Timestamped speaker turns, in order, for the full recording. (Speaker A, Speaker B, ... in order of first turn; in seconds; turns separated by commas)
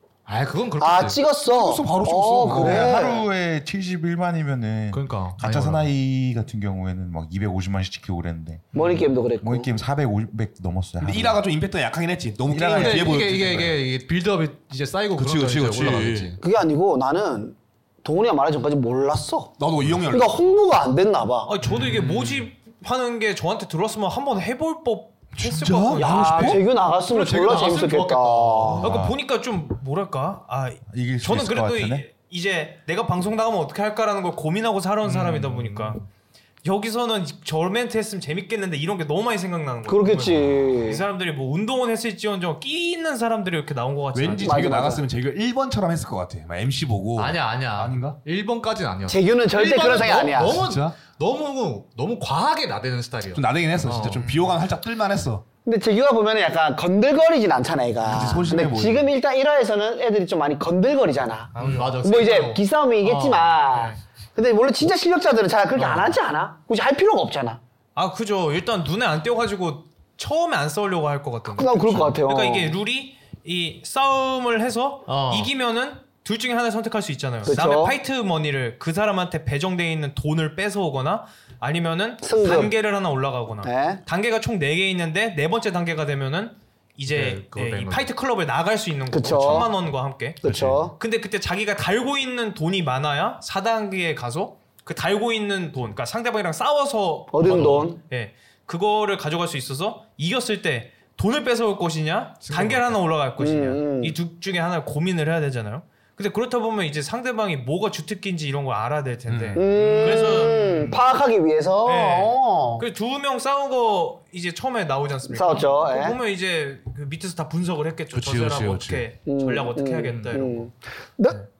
Speaker A: 0.3-1.2, Speaker B: 0.8-3.3, Speaker C: 1.5-2.9, Speaker D: 2.5-8.7, Speaker A: 4.9-5.9, Speaker A: 8.7-9.0, Speaker B: 8.7-9.7, Speaker D: 9.4-11.4, Speaker C: 11.0-13.8, Speaker D: 12.5-13.1, Speaker A: 12.5-16.4, Speaker C: 15.2-16.4, Speaker B: 16.4-19.6, Speaker C: 19.6-20.6, Speaker B: 20.1-21.5, Speaker E: 21.5-26.6, Speaker A: 21.7-22.4, Speaker C: 25.3-26.6, Speaker B: 25.9-28.8, Speaker A: 27.0-28.9, Speaker D: 28.8-29.1, Speaker E: 28.8-36.0, Speaker D: 30.9-32.0, Speaker A: 35.1-36.0, Speaker E: 36.6-44.8, Speaker B: 39.9-41.0, Speaker C: 44.1-48.2, Speaker B: 44.4-45.0, Speaker A: 47.1-54.5, Speaker B: 49.1-50.6, Speaker C: 50.5-51.0, Speaker C: 53.3-55.4, Speaker B: 55.6-67.6, Speaker C: 58.0-59.1, Speaker E: 61.5-61.9, Speaker A: 61.5-63.6, Speaker E: 63.7-64.0, Speaker A: 65.8-66.1, Speaker E: 67.9-111.0, Speaker B: 71.5-72.8, Speaker A: 75.1-75.5, Speaker B: 77.5-78.0, Speaker B: 82.2-82.7, Speaker B: 83.6-84.0, Speaker A: 87.1-88.1, Speaker B: 89.1-89.7, Speaker B: 90.4-91.0, Speaker B: 97.3-98.0, Speaker A: 102.4-103.0, Speaker B: 103.4-104.1, Speaker C: 109.3-109.6, Speaker B: 109.5-112.8, Speaker A: 110.5-111.0, Speaker E: 111.8-120.7, Speaker B: 115.3-116.2, Speaker C: 118.1-119.0, Speaker B: 119.2-121.4, Speaker A: 120.1-120.4